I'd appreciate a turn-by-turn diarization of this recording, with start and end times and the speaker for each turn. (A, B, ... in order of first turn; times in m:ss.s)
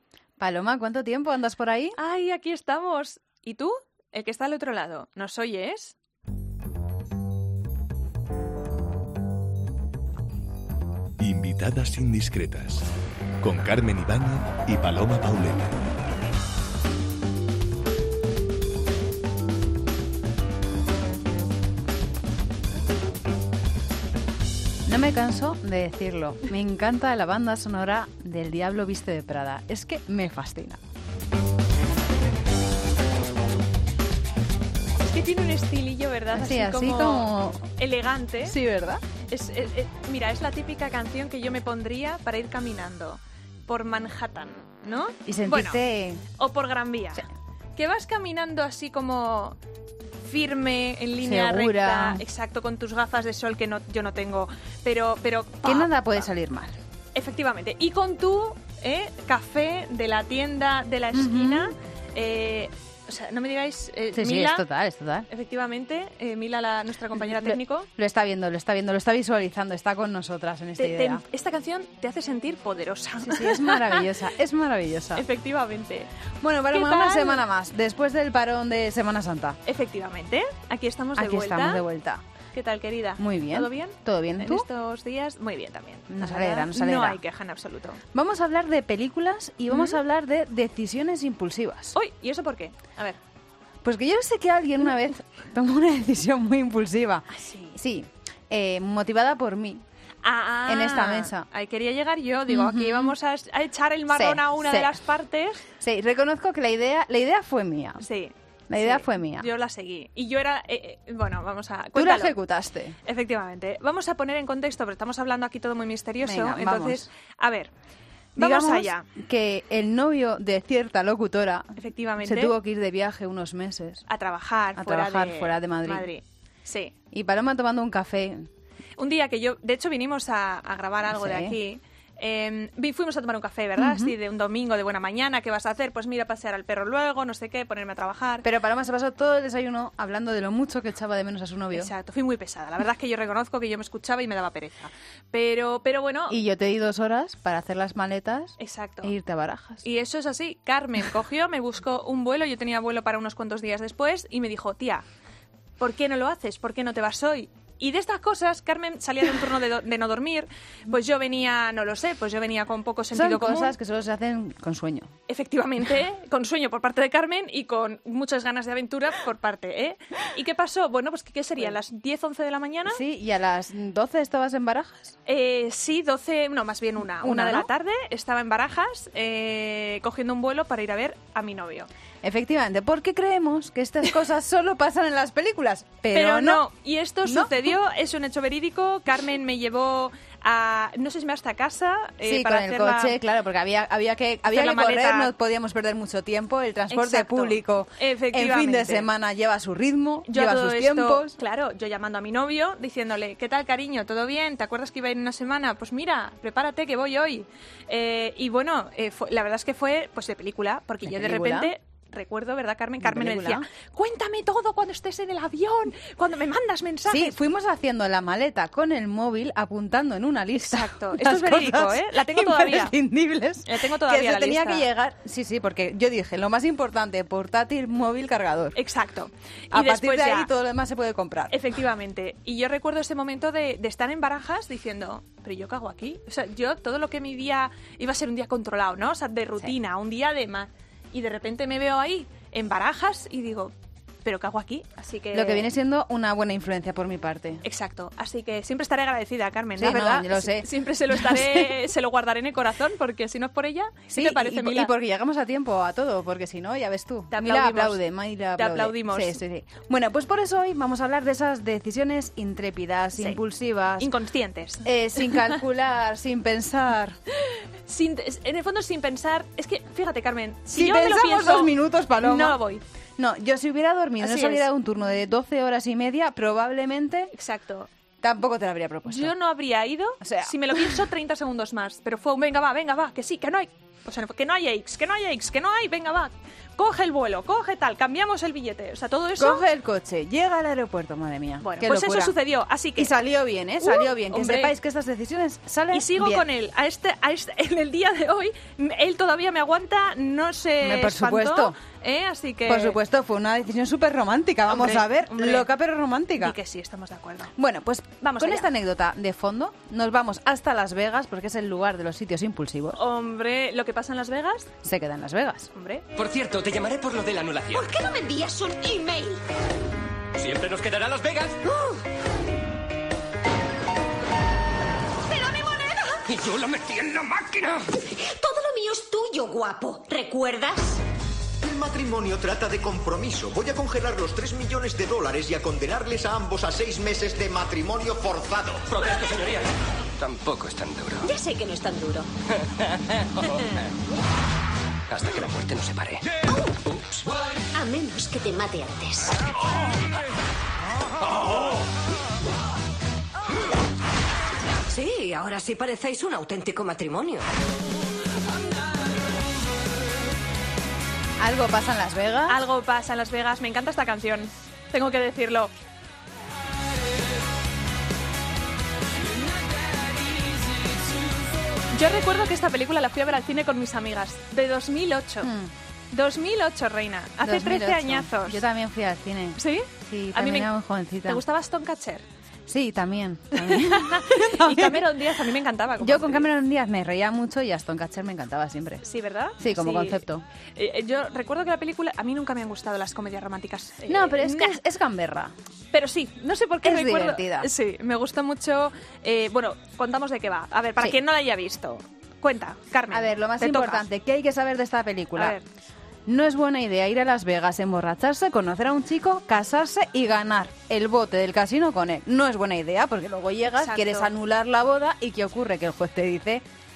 0:00.4-0:02.0 A
0:02.0-0:05.9 B
0:11.2-0:12.9 C
0:13.4-0:15.8 C
0:24.8-0:30.8 A
0:35.0-0:38.6 B
0:36.3-0:37.6 A
0:38.4-0:39.0 A
0:39.3-0:45.8 B
0:45.2-0:46.2 A
0:46.4-0:47.2 B
0:47.8-0:49.6 B
0:50.2-0:56.2 B
0:51.2-0:52.2 A
0:55.6-0:56.8 A
0:57.1-1:04.6 B
1:01.1-1:01.7 A
1:04.1-1:05.3 A
1:05.3-1:07.9 B
1:07.1-1:11.2 A
1:10.8-1:14.1 B
1:13.2-1:15.2 A
1:15.1-1:16.1 B
1:16.4-1:19.6 A
1:16.7-1:17.4 B
1:19.6-1:21.8 B
1:21.2-1:22.2 A
1:22.5-1:28.0 B
1:23.2-1:24.6 A
1:26.1-1:27.2 A
1:28.1-1:31.9 A
1:29.7-1:30.0 B
1:31.9-1:33.2 B
1:33.8-1:39.8 A
1:37.3-1:37.8 B
1:40.2-1:45.6 B
1:40.6-1:41.5 A
1:42.5-1:43.1 A
1:44.1-1:45.0 A
1:45.8-1:48.0 A
1:48.0-1:52.4 B
1:48.7-1:49.5 A
1:51.9-1:53.0 A
1:53.0-1:57.7 B
1:56.2-1:57.1 A
1:58.4-1:59.1 B
1:58.4-2:04.0 A
2:01.8-2:02.5 B
2:04.1-2:06.9 B
2:04.7-2:06.1 A
2:07.1-2:08.5 A
2:09.0-2:18.5 B
2:11.1-2:11.6 A
2:13.8-2:14.2 A
2:18.4-2:21.9 A
2:21.7-2:26.4 B
2:26.3-2:29.8 A
2:28.6-2:29.1 B
2:29.8-2:35.0 B
2:35.8-2:43.7 B
2:43.1-2:45.1 A
2:45.3-2:53.0 B
2:52.8-2:55.2 A
2:55.2-3:01.9 B
2:57.2-2:57.7 A
3:02.2-3:06.6 A
3:06.1-3:13.2 B
3:07.2-3:07.7 A
3:12.2-3:21.4 A
3:14.5-3:15.3 B
3:16.9-3:19.1 B
3:20.3-3:37.4 B
3:31.0-3:31.7 A
3:33.0-3:33.6 A
3:37.0-3:48.8 A
3:40.6-3:42.9 B
3:43.6-3:44.9 B
3:48.7-3:50.5 B
3:49.7-3:51.7 A
3:51.5-4:03.7 B
4:04.2-4:05.7 B
4:05.3-4:07.6 A
4:07.6-4:14.9 B
4:09.8-4:11.8 A
4:14.1-4:24.1 A
4:17.3-4:18.0 B
4:18.6-4:19.4 B
4:24.0-4:25.5 B
4:24.8-4:27.2 A
4:27.4-4:32.8 B
4:30.7-4:32.6 A
4:33.2-4:37.3 A
4:34.2-4:34.7 B
4:37.3-4:37.9 B
4:38.2-4:39.3 A
4:39.1-4:49.6 B
4:40.2-4:41.0 A
4:49.4-4:52.4 A
4:51.6-4:53.1 B
4:53.0-4:56.4 A
4:53.8-4:54.7 B
4:55.9-5:03.0 B
5:00.8-5:01.8 A
5:02.6-5:06.6 A
5:04.7-5:05.7 B
5:06.4-5:07.5 B
5:07.6-5:13.0 A
5:08.2-5:08.7 B
5:12.9-5:14.7 B
5:14.8-5:15.7 A
5:15.7-5:16.0 B
5:16.1-5:17.9 D
5:17.7-5:19.4 E
5:20.4-5:21.6 D
5:21.6-5:21.9 E
5:25.2-5:26.3 E
5:26.3-5:27.8 D
5:28.1-5:31.0 E
5:31.6-5:38.9 F
5:39.0-5:39.4 D
5:40.2-5:41.2 D
5:41.2-5:42.3 E
5:45.1-5:46.2 D
5:47.7-5:49.3 E
5:54.9-5:57.5 G
6:01.4-6:02.6 A
6:02.5-6:05.7 B
6:11.9-6:15.5 B
6:15.4-6:15.7 A
6:16.1-6:18.6 B
6:17.4-6:21.4 A
6:19.6-6:20.7 B
6:21.2-6:22.2 B
6:22.7-6:25.3 A
6:23.5-6:26.5 B
6:26.0-6:29.0 A
6:29.0-6:30.2 B
6:29.6-6:30.4 A
6:30.8-6:34.8 B
6:34.1-6:35.5 A
6:35.9-6:44.0 B
6:36.8-6:37.7 A
6:43.1-6:45.6 A
6:45.3-6:45.6 B
6:46.2-6:56.6 A
6:53.7-6:54.3 B